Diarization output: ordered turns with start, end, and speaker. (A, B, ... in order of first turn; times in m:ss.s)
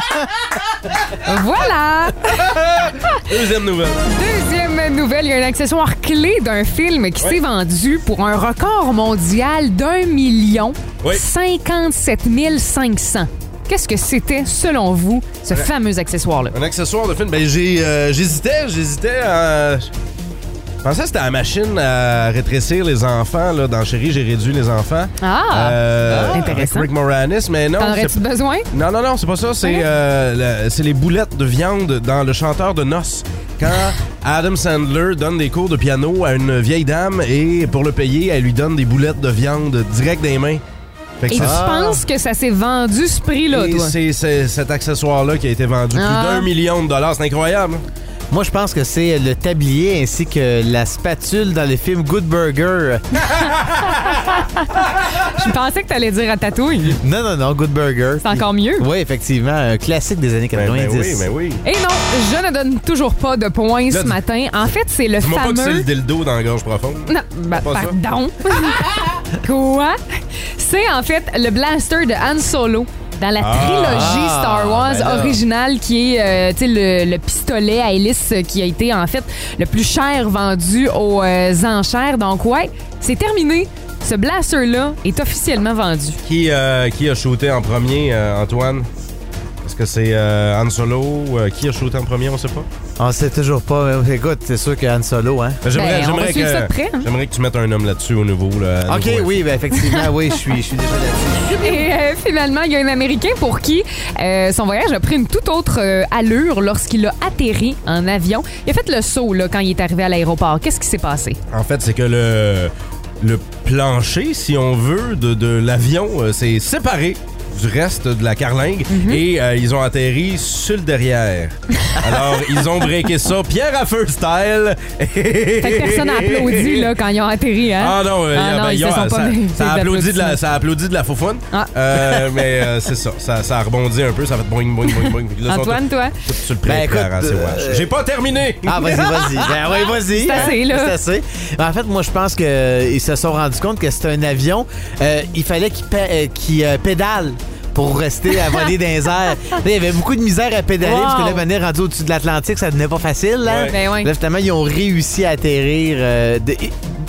0:01.2-0:02.4 A
0:02.2-0:04.0 B
0:04.0-0:16.5 A
0:16.5-0:19.9 B
0:20.8-0:28.2 B
0:25.2-0:25.8 A
0:26.1-0:26.4 C
0:26.3-0:26.9 A
0:27.8-0:28.7 A
0:28.7-0:40.6 B
0:41.2-0:41.6 B
0:41.3-0:43.9 A
0:41.4-0:42.0 C
0:43.5-0:47.8 B
0:45.9-0:46.5 A
0:48.3-0:53.2 C
0:53.9-0:57.0 A
0:57.0-1:01.3 C
0:58.2-0:58.8 A
1:00.5-1:01.6 B
1:01.6-1:05.8 A
1:03.9-1:04.2 B
1:05.2-1:08.0 B
1:07.1-1:08.9 A
1:09.4-1:10.0 A
1:10.5-1:26.2 A
1:13.4-1:14.2 B
1:13.8-1:15.4 C
1:26.2-1:28.9 B
1:29.6-1:32.7 B
1:33.0-1:35.6 C
1:35.6-1:39.3 B
1:35.7-1:37.1 A
1:38.9-1:41.8 C
1:39.8-1:40.1 A
1:41.5-1:51.4 A
1:51.5-2:06.9 B
1:58.9-1:59.2 A
2:05.6-2:10.4 A
2:07.8-2:19.4 B
2:11.5-2:12.2 A
2:14.9-2:16.1 A
2:16.6-2:17.9 C
2:18.6-2:36.9 C
2:20.0-2:21.0 A
2:30.8-2:31.4 A
2:33.4-2:33.7 B
2:33.7-2:34.1 A